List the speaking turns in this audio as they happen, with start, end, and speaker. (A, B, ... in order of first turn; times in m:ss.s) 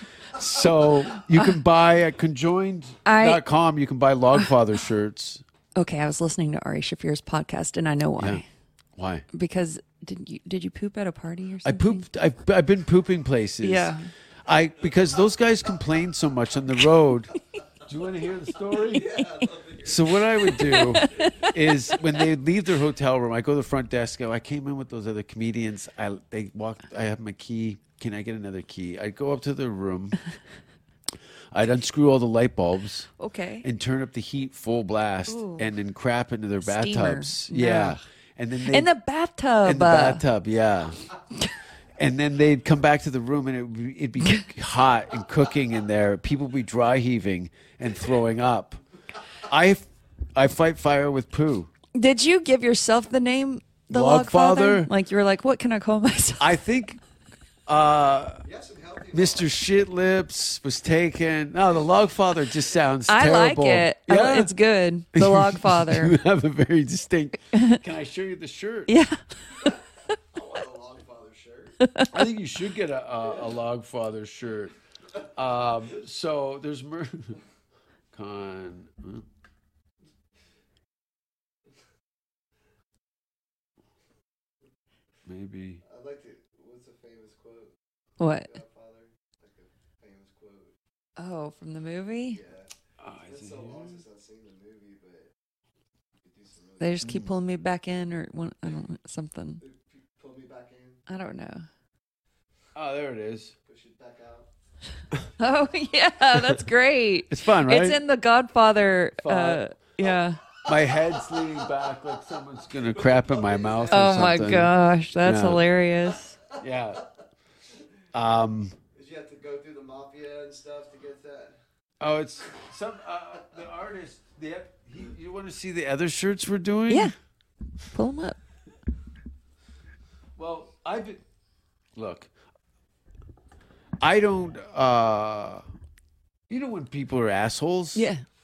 0:00.3-0:05.4 A
0:03.0-0:03.4 B
0:05.8-0:08.5 B
0:08.2-0:08.4 A
0:09.0-0:09.2 A
0:09.3-0:12.1 B
0:11.6-0:13.9 A
0:13.6-0:14.1 B
0:14.4-0:30.2 A
0:18.9-0:20.1 C
0:20.4-0:21.7 B
0:31.5-0:33.1 A
0:33.2-0:33.7 B
0:33.6-0:38.9 A
0:35.3-0:35.7 B
0:36.6-0:38.0 B
0:38.7-0:40.2 B
0:39.6-0:41.1 A
0:42.0-0:48.8 A
0:49.4-0:51.7 A
0:52.0-0:56.5 B
0:53.9-0:54.9 A
0:56.4-0:57.0 A
0:57.7-0:58.4 A
0:58.4-0:59.5 C
0:59.1-1:04.5 A
1:03.1-1:06.2 B
1:05.1-1:08.9 A
1:07.5-1:07.8 B
1:08.9-1:09.7 B
1:10.3-1:11.8 C
1:11.8-1:12.2 B
1:12.1-1:14.7 A
1:15.4-1:17.4 A
1:18.1-1:19.2 A
1:25.2-1:25.8 A
1:25.8-1:27.8 C
1:28.2-1:28.6 B
1:28.5-1:30.7 C
1:31.2-1:32.4 B
1:32.4-1:32.7 C
1:33.0-1:34.0 A
1:33.2-1:35.3 C
1:36.2-1:37.0 C
1:36.8-1:39.6 B
1:37.0-1:37.3 A
1:39.6-1:41.0 C
1:41.1-1:41.6 B
1:42.8-1:43.5 A
1:43.7-1:44.5 C
1:45.4-1:50.4 B
1:47.3-1:48.0 A
1:49.2-1:49.6 A
1:50.7-1:55.6 A
1:53.1-1:54.2 C
1:53.9-1:56.4 B
1:56.6-1:57.0 A
1:58.1-1:58.8 A
1:59.0-2:01.6 C
2:02.0-2:07.1 A
2:07.9-2:08.4 B
2:10.4-2:11.2 A
2:12.0-2:12.3 A
2:14.0-2:15.6 A
2:16.5-2:18.1 A
2:18.0-2:18.2 B